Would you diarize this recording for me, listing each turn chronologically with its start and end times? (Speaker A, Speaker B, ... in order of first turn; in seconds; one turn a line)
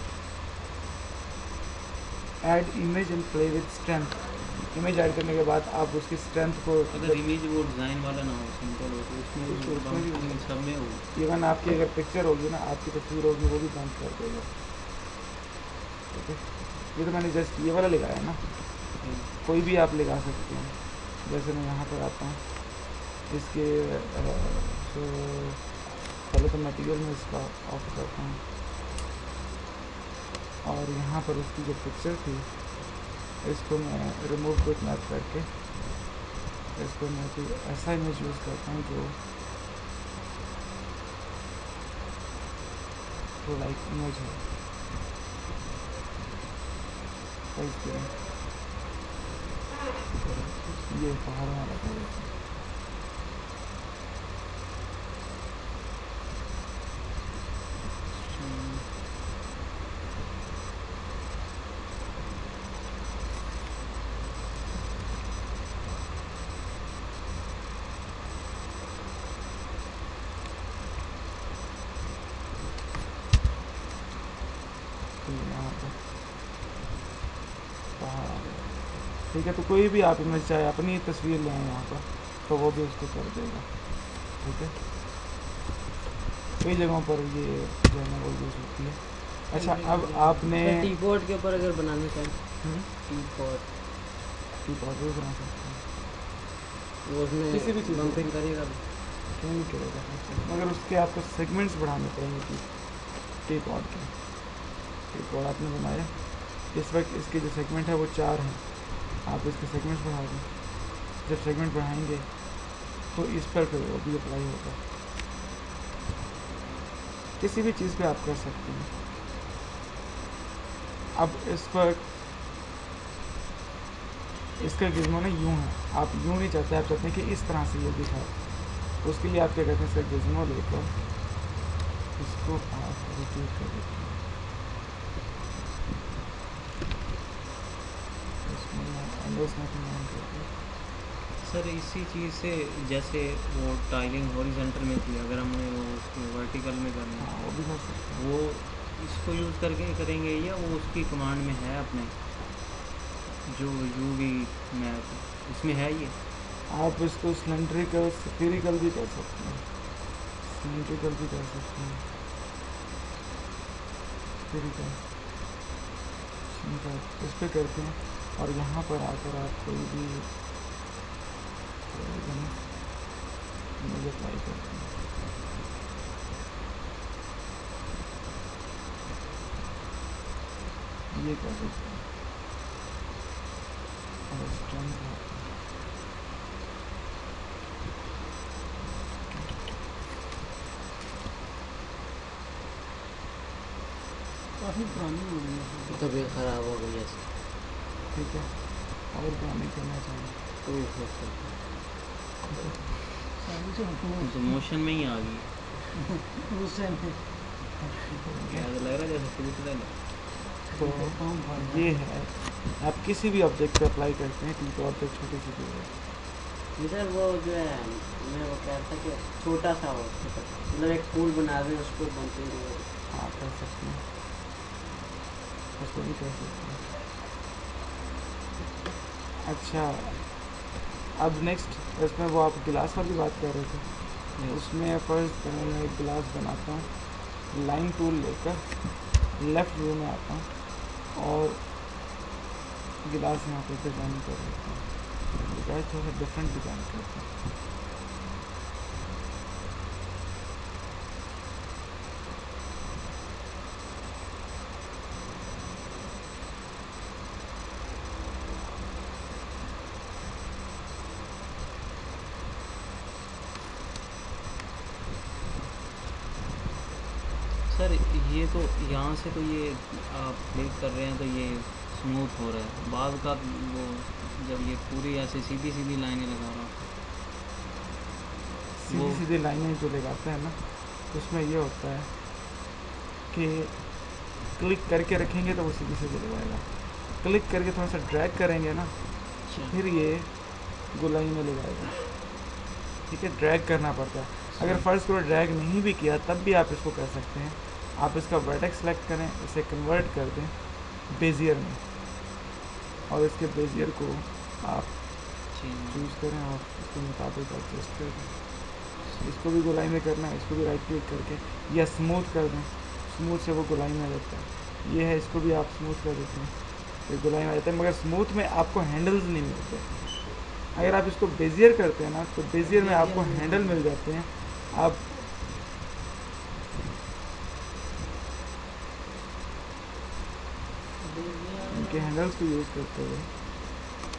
Speaker A: 2.4-7.2
Speaker B: 6.9-11.1
Speaker A: 9.4-14.5
Speaker A: 16.1-28.4
Speaker B: 19.0-19.3
Speaker A: 30.6-35.6
Speaker A: 36.7-39.2
Speaker A: 43.4-44.5
Speaker A: 47.5-48.1
Speaker B: 50.2-51.0
Speaker A: 50.9-52.3
Speaker B: 58.1-58.9
Speaker A: 75.2-76.0
Speaker A: 77.9-84.8
Speaker A: 86.6-91.0
Speaker C: 89.5-90.5
Speaker D: 90.6-93.7
Speaker A: 92.6-92.9
Speaker A: 94.6-95.8
Speaker D: 97.0-98.8
Speaker A: 97.5-98.4
Speaker A: 99.3-114.8
Speaker A: 117.4-118.9
Speaker A: 121.1-122.1
Speaker A: 124.5-130.9
Speaker A: 132.2-134.2
Speaker A: 138.4-140.5
Speaker B: 141.4-152.1
Speaker A: 147.2-148.2
Speaker B: 153.4-156.1
Speaker A: 156.7-162.1
Speaker A: 164.4-165.0
Speaker A: 166.4-170.3
Speaker A: 171.8-173.1
Speaker A: 173.8-175.0
Speaker A: 181.1-182.0
Speaker A: 184.3-185.5
Speaker A: 189.3-189.6
Speaker C: 194.6-196.4
Speaker D: 195.9-197.2
Speaker A: 198.1-200.4
Speaker D: 200.6-201.6
Speaker C: 203.3-204.6
Speaker B: 204.2-205.8
Speaker C: 205.9-207.8
Speaker A: 207.8-208.7
Speaker B: 208.4-210.1
Speaker C: 210.7-211.9
Speaker A: 210.7-215.9
Speaker D: 216.7-222.9
Speaker A: 223.1-224.0
Speaker A: 225.8-226.8
Speaker A: 229.4-241.7
Speaker B: 234.3-234.7
Speaker A: 243.0-247.3
Speaker B: 267.7-276.7
Speaker A: 278.8-282.1
Speaker B: 278.9-279.2
Speaker A: 283.3-292.3
Speaker B: 289.4-289.8
Speaker A: 293.1-301.8
Speaker B: 294.5-294.9
Speaker A: 303.1-325.3
Speaker B: 305.5-306.1
Speaker C: 322.6-323.8
Speaker C: 331.0-332.1
Speaker A: 331.7-333.3